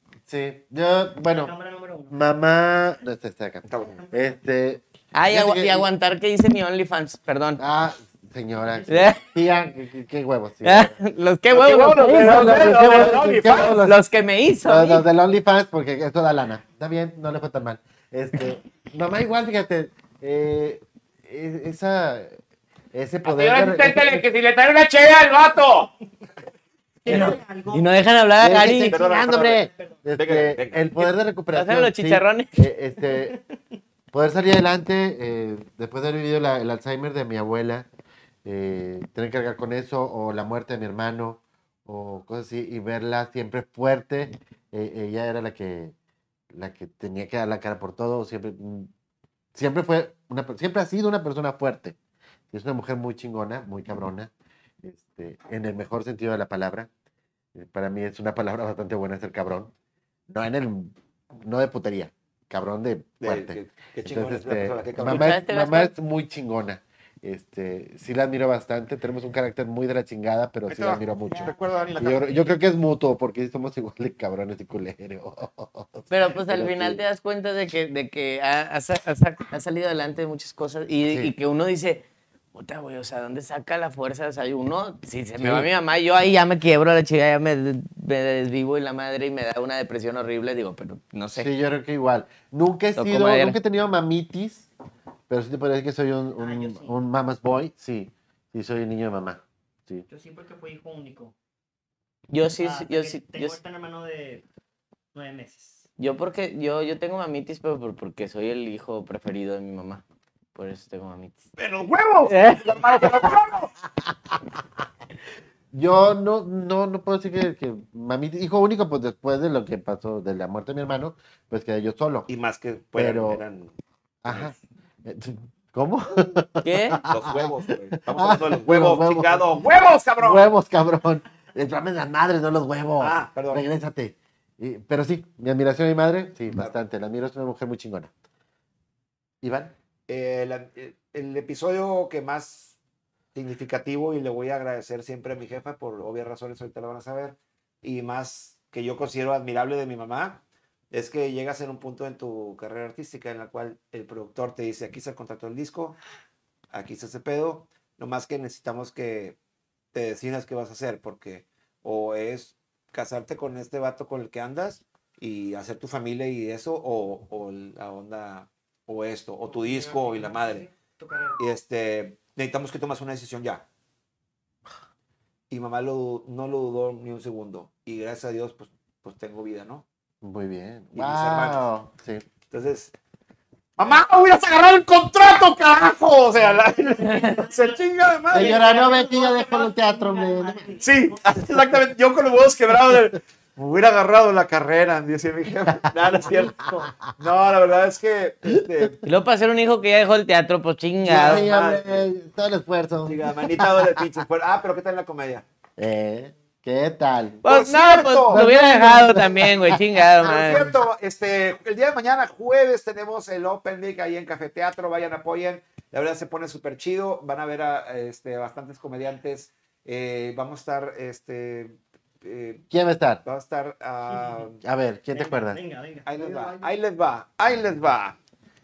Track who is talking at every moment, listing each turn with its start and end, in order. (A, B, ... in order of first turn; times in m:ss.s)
0:00.3-0:01.5 A
0:01.3-0:02.1 B
0:02.1-0:05.9 A
0:03.7-0:04.0 C
0:03.8-0:04.4 B
0:05.1-0:07.6 D
0:07.6-0:10.9 A
0:08.7-0:09.1 B
0:08.9-0:09.2 D
0:10.6-0:15.0 D
0:11.5-0:13.8 C
0:12.0-0:14.0 A
0:14.6-0:22.4 A
0:22.9-0:24.2 A
0:23.2-0:25.9 C
0:27.0-0:27.9 B
0:27.1-0:28.9 D
0:28.4-0:33.4 A
0:28.9-0:29.6 C
0:29.0-0:30.0 B
0:30.2-0:31.1 C
0:31.5-0:32.5 D
0:33.0-0:33.4 B
0:34.1-0:37.9 A
0:38.4-0:45.9 A
0:46.5-0:48.9 A
0:49.5-0:52.0 A
0:52.5-0:54.3 A
0:54.8-0:56.9 A
0:57.5-0:59.7 A
1:00.3-1:17.0 A
1:03.2-1:05.3 C
1:05.0-1:05.9 D
1:10.7-1:12.4 C
1:11.3-1:12.2 B
1:16.1-1:22.0 D
1:22.5-1:31.5 D
1:31.3-1:34.7 A
1:33.0-1:33.6 D
1:35.3-1:40.0 A
1:36.4-1:37.0 B
1:40.1-1:41.3 B
1:42.3-1:43.6 D
1:42.6-1:44.4 B
1:45.1-1:45.8 B
1:46.0-1:50.0 D
1:50.6-1:51.4 D
1:51.6-1:53.7 C
1:52.3-1:53.3 D
1:55.7-2:02.3 A
2:02.3-2:03.7 C
2:03.0-2:03.4 A
2:04.2-2:04.5 A
2:04.2-2:04.5 C
2:05.0-2:07.5 A
2:06.6-2:07.0 D
2:07.1-2:10.5 C
2:08.1-2:09.5 A
2:10.2-2:18.1 A
2:13.0-2:13.6 C
2:19.4-2:19.7 A
2:20.1-2:22.7 C
2:23.3-2:36.0 C
2:36.7-2:39.4 C
2:39.9-2:50.6 C
2:49.5-2:51.4 B
2:51.4-2:53.6 C
2:55.5-2:59.8 C
3:00.2-3:02.2 A
3:00.9-3:01.6 C
3:02.5-3:02.9 C
3:03.8-3:08.6 C
3:06.4-3:11.5 B
3:08.3-3:10.8 A
3:10.8-3:19.0 C
3:16.2-3:16.9 B
3:19.0-3:21.4 D
3:21.0-3:22.0 C
3:21.1-3:24.0 A
3:23.0-3:25.4 C
3:25.8-3:27.4 A
3:27.4-3:30.7 D
3:27.4-3:28.4 C
3:28.3-3:30.0 A
3:30.2-3:42.6 C
3:42.7-3:43.2 A
3:43.2-3:44.6 C
3:44.1-3:44.4 B
3:44.6-3:45.6 A
3:45.1-3:46.7 B
3:46.0-3:48.2 C